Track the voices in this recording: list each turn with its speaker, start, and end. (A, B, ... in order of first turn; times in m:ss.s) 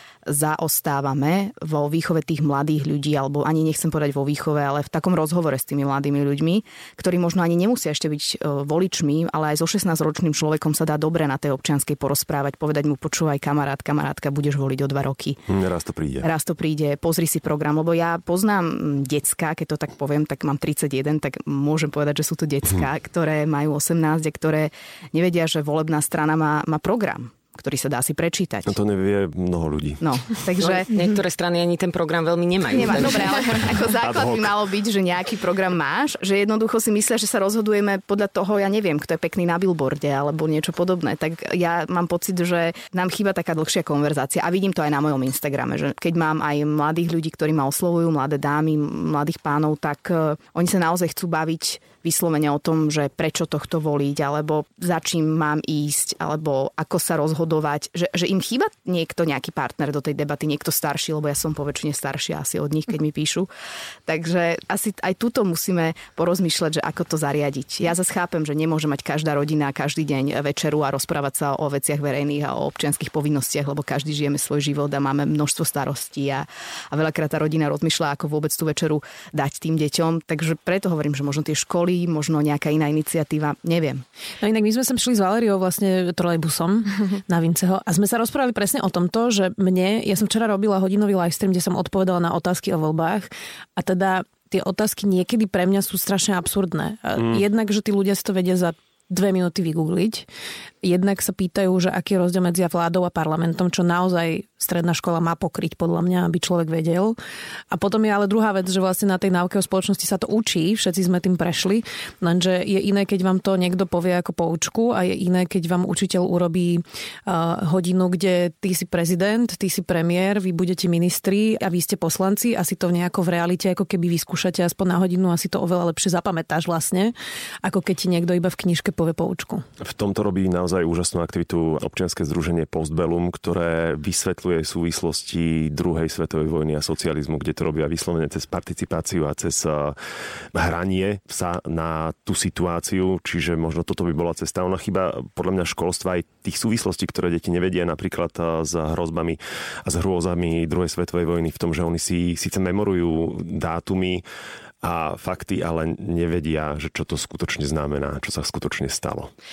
0:00.2-0:15.4 A
0:15.5-0:16.3 B
0:16.2-0:28.7 A
0:28.6-0:30.0 B
0:30.0-0:30.9 A
0:30.6-0:33.3 C
0:32.7-1:03.5 A
0:34.0-0:34.6 B
1:04.0-1:24.0 A
1:24.4-1:40.2 D
1:40.8-1:47.2 D
1:47.7-2:09.6 D
2:09.8-2:20.0 B
2:20.5-2:34.2 B
2:34.8-2:39.3 B